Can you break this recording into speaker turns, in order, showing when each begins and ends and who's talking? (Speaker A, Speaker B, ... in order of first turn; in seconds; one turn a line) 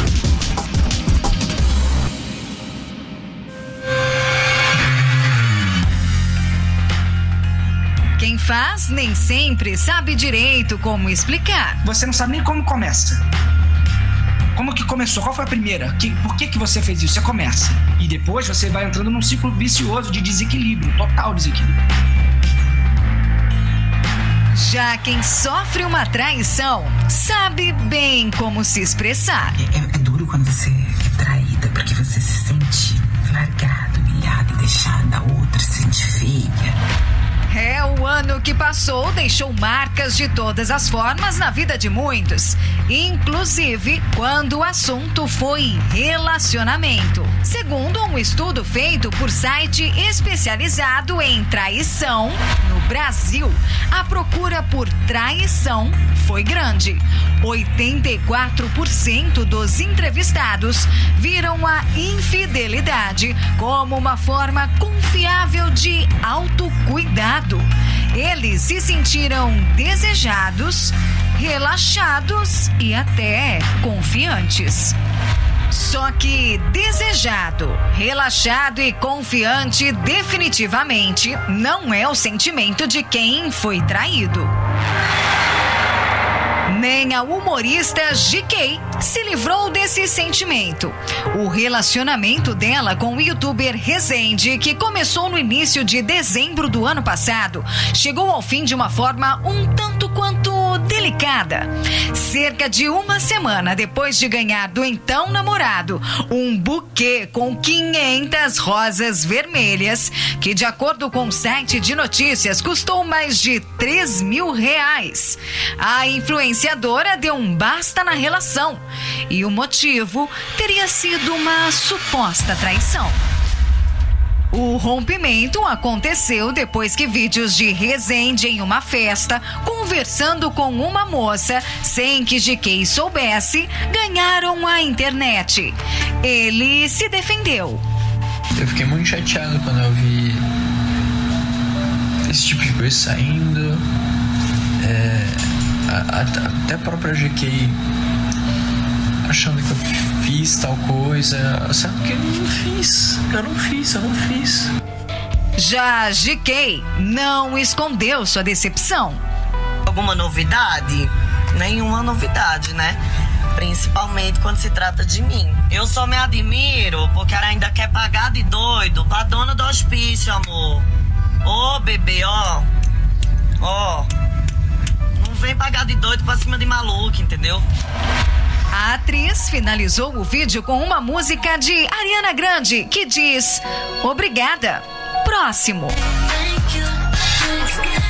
Speaker A: 8.2-11.8
Speaker B: 11.8-13.2
Speaker B: 14.6-21.8
Speaker A: 24.6-29.6
Speaker C: 29.6-36.8
Speaker A: 37.5-75.0
Speaker A: 75.7-84.5
Speaker A: 86.7-123.2
Speaker A: 124.5-137.8
Speaker D: 138.6-140.4
Speaker D: 142.3-143.8
Speaker D: 144.8-147.8
Speaker D: 149.3-154.7
Speaker A: 155.6-159.2
Speaker E: 159.9-163.0
Speaker E: 163.6-170.8
Speaker E: 171.4-172.7
Speaker E: 173.6-174.1
Speaker E: 175.2-177.6
Speaker A: 178.7-185.9